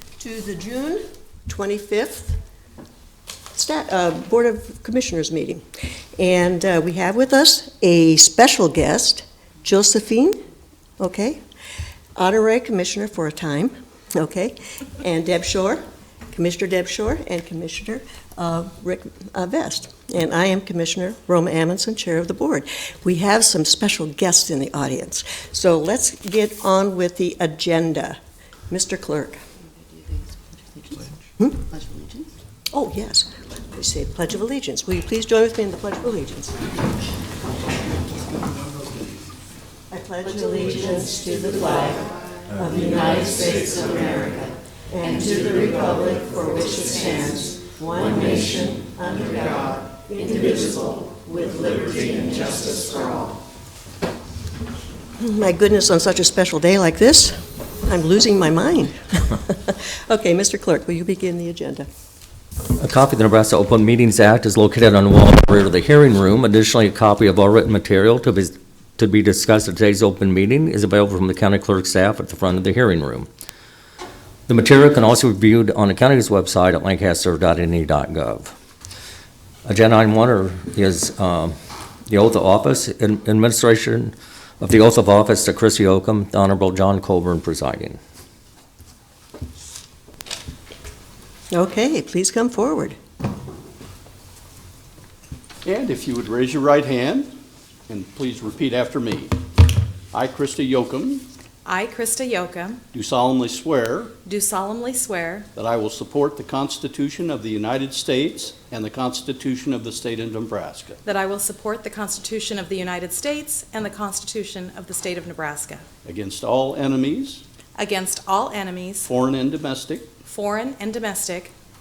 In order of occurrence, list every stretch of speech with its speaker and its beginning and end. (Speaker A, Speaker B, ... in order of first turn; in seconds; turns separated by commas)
Speaker A: 0.2-2.4, Speaker A: 3.5-5.6, Speaker A: 6.2-10.4, Speaker A: 11.0-11.4, Speaker A: 12.2-28.2, Speaker A: 28.7-29.4, Speaker A: 30.9-31.9, Speaker A: 32.7-36.7, Speaker A: 39.9-53.3, Speaker A: 55.2-61.9, Speaker B: 62.8-73.3, Speaker B: 74.5-78.5, Speaker B: 79.7-81.5, Speaker B: 82.1-88.0, Speaker A: 91.5-93.0, Speaker C: 95.7-97.3, Speaker C: 97.9-99.3, Speaker C: 100.1-101.2, Speaker D: 101.7-102.8, Speaker C: 102.9-104.1, Speaker D: 104.2-105.5, Speaker C: 105.5-111.0, Speaker D: 111.0-115.8, Speaker C: 116.0-117.4, Speaker D: 117.8-119.1, Speaker C: 119.0-120.1, Speaker D: 120.2-121.5